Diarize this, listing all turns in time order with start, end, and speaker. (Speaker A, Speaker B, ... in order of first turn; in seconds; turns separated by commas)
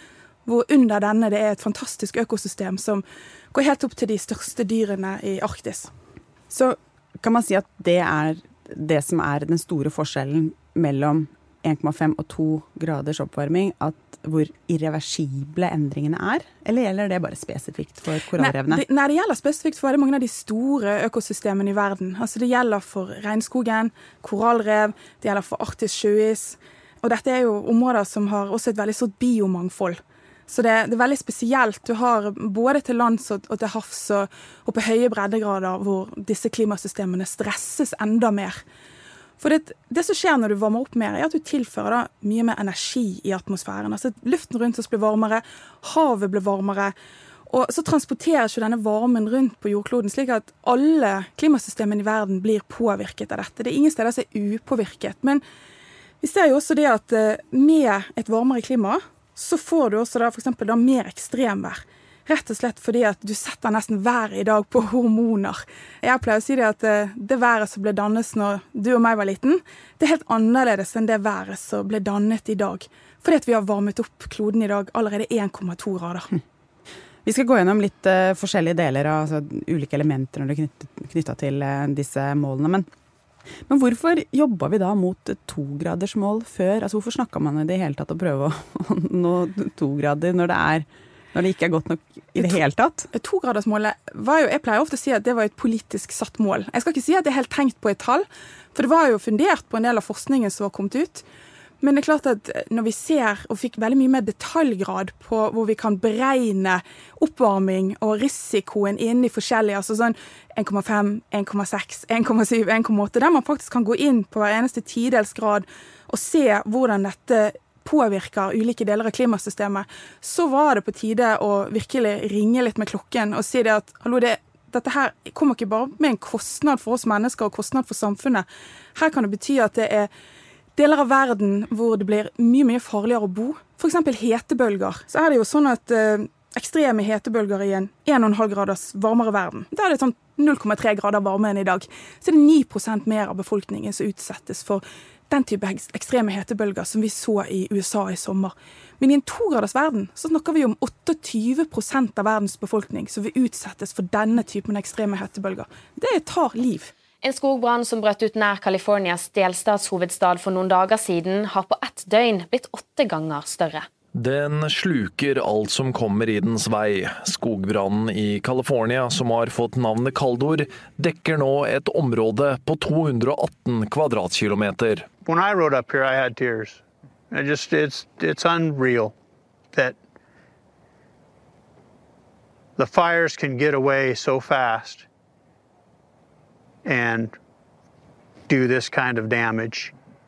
Speaker A: 0.5-5.9, Speaker B: 6.5-18.8, Speaker A: 18.4-38.6, Speaker A: 39.4-46.9, Speaker A: 47.5-55.4, Speaker A: 56.2-76.3, Speaker B: 77.2-82.9, Speaker B: 83.7-93.1, Speaker A: 93.1-101.2, Speaker A: 101.8-130.1, Speaker A: 130.8-156.9, Speaker C: 157.2-163.9, Speaker D: 164.1-175.1, Speaker E: 175.2-179.2, Speaker E: 179.7-180.0, Speaker E: 182.8-185.1, Speaker E: 186.8-187.4, Speaker E: 188.5-189.9